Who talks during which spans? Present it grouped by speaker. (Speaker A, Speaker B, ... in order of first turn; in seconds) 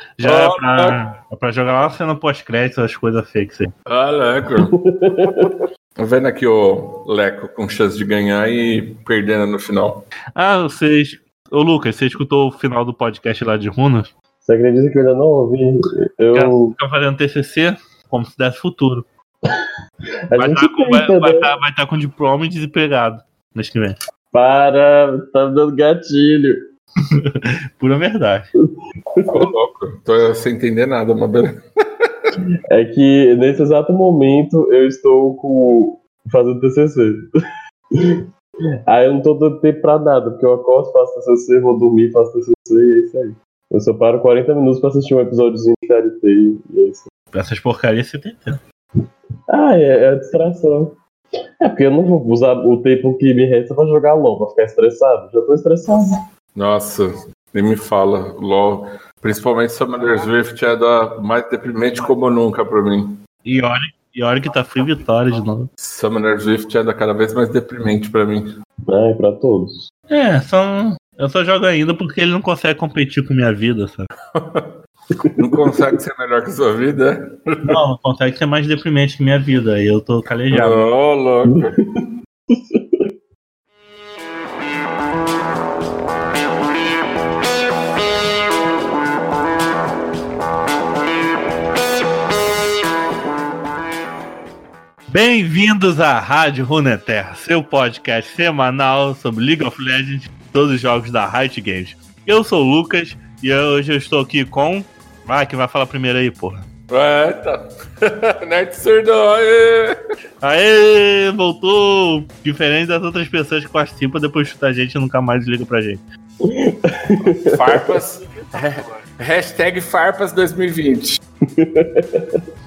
Speaker A: 0.2-3.7, 10.4-14.1, 16.3-19.1, 20.4-24.0, 27.1-28.5, 47.3-48.6, 63.5-65.7, 70.1-74.1, 77.7-80.8, 95.1-106.7, 110.4-116.0
Speaker B: 0.2-1.0, 3.9-4.7, 5.2-10.1, 29.3-31.6, 56.5-63.2, 65.8-68.5, 74.3-74.8, 75.3-77.8, 80.5-81.7, 106.9-110.0, 117.4-121.2
Speaker C: 4.7-5.5, 14.4-16.8, 20.3-21.5, 24.3-26.6, 29.2-29.5, 32.7-37.3, 38.9-47.1, 49.5-51.0, 51.6-56.2, 68.9-69.8, 81.5-83.1, 116.4-117.9, 121.5-122.4